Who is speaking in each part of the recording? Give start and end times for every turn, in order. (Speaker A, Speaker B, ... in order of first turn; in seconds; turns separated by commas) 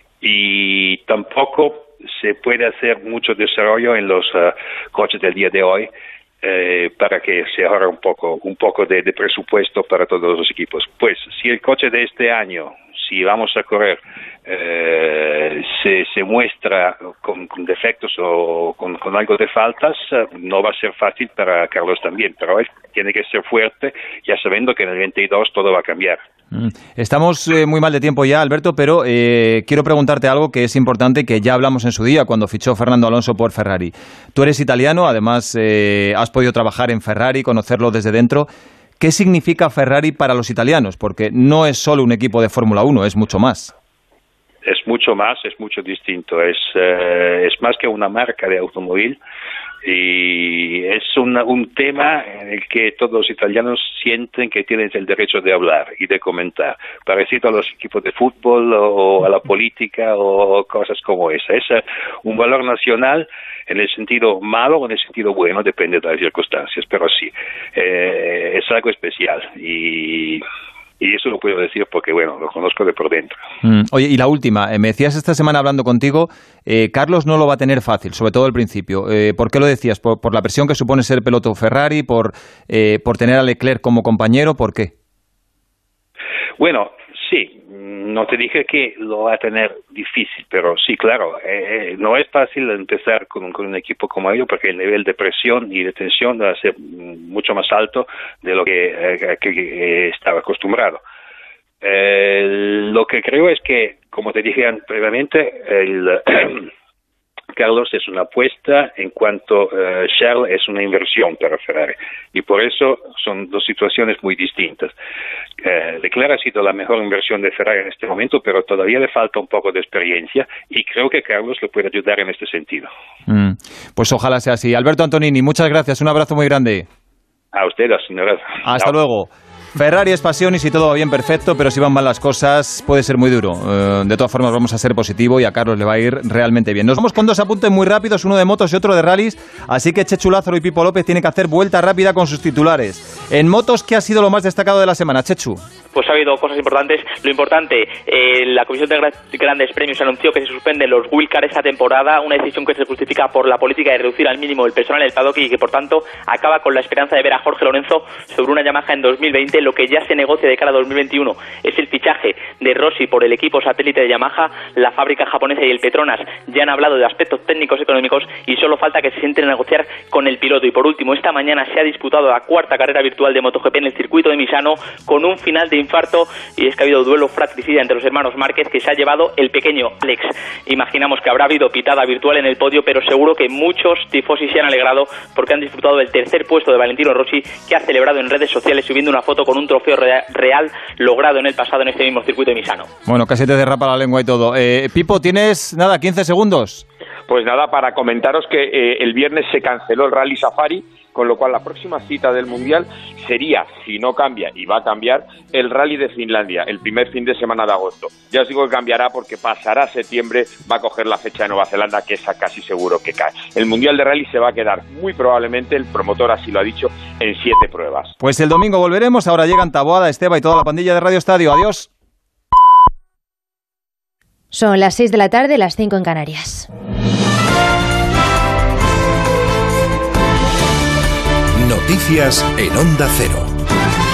Speaker A: 0.2-5.9, Speaker A: 6.4-26.2, Speaker B: 26.5-38.5, Speaker B: 39.0-43.7, Speaker A: 44.6-49.2, Speaker A: 49.8-70.4, Speaker A: 71.0-73.4, Speaker B: 73.6-84.9, Speaker A: 86.6-101.0, Speaker A: 101.8-106.7, Speaker A: 107.5-114.9, Speaker A: 115.6-122.9, Speaker B: 123.3-126.8, Speaker A: 127.5-128.9, Speaker B: 128.6-145.6, Speaker C: 145.9-192.9, Speaker B: 193.1-196.8, Speaker D: 197.3-218.1, Speaker B: 218.2-221.9, Speaker E: 224.5-226.7, Speaker F: 231.6-233.5